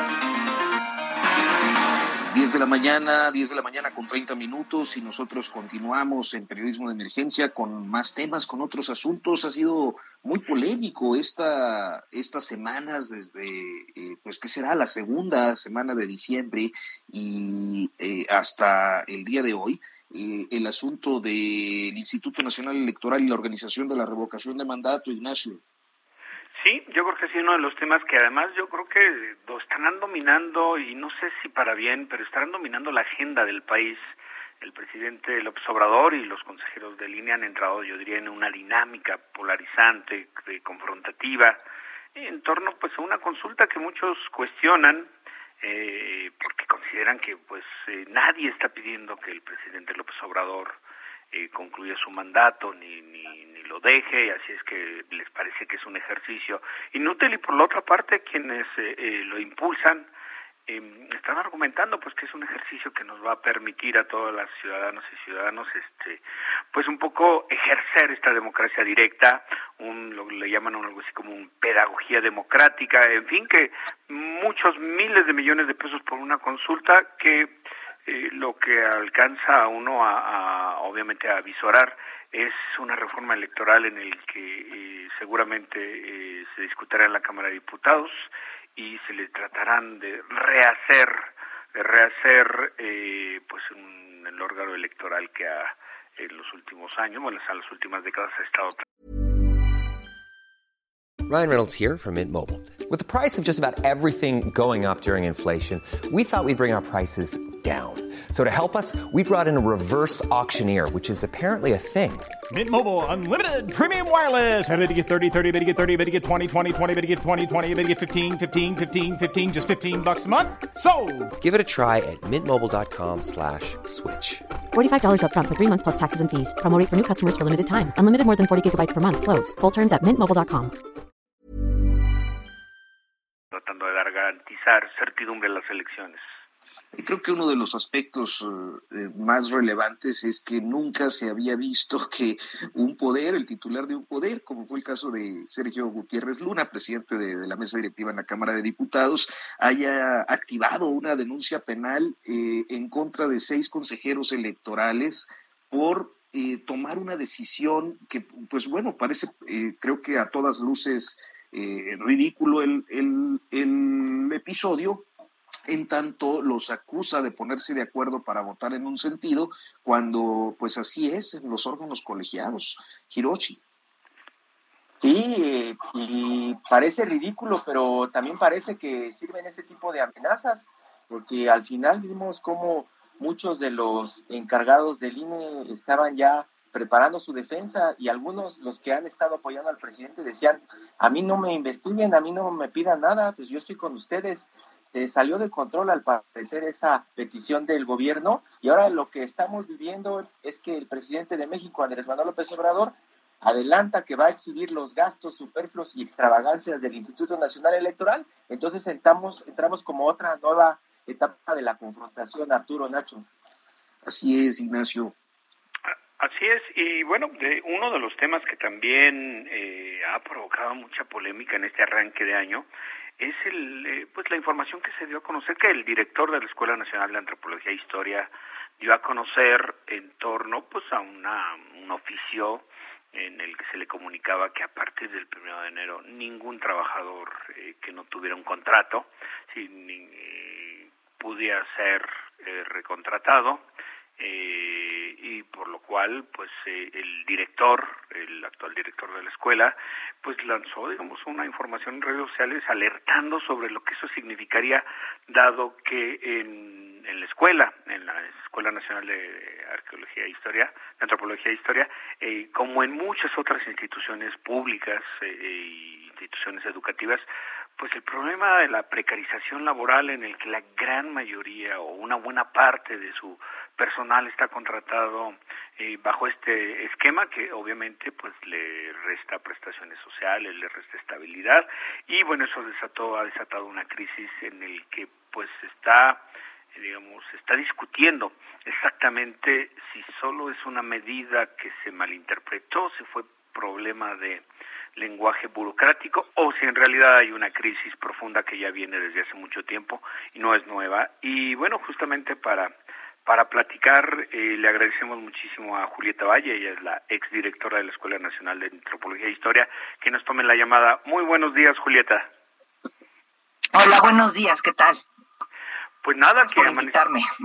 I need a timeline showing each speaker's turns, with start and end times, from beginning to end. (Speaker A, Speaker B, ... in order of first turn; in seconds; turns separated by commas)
Speaker A: 2.3-25.6, Speaker B: 26.6-41.6, Speaker B: 42.1-50.8, Speaker B: 51.3-60.1, Speaker B: 60.7-66.2, Speaker B: 66.7-98.8, Speaker C: 101.3-112.4, Speaker D: 112.5-121.3, Speaker C: 121.4-124.5, Speaker E: 124.7-130.7, Speaker B: 133.5-136.2, Speaker A: 136.9-165.1, Speaker A: 165.7-173.6, Speaker F: 175.0-213.2, Speaker A: 214.0-215.1, Speaker B: 216.2-222.7, Speaker B: 223.2-243.6, Speaker B: 244.2-267.3, Speaker B: 267.8-294.4, Speaker B: 294.9-302.7, Speaker B: 303.2-312.3, Speaker G: 313.7-315.0, Speaker B: 316.0-317.0, Speaker G: 316.4-317.2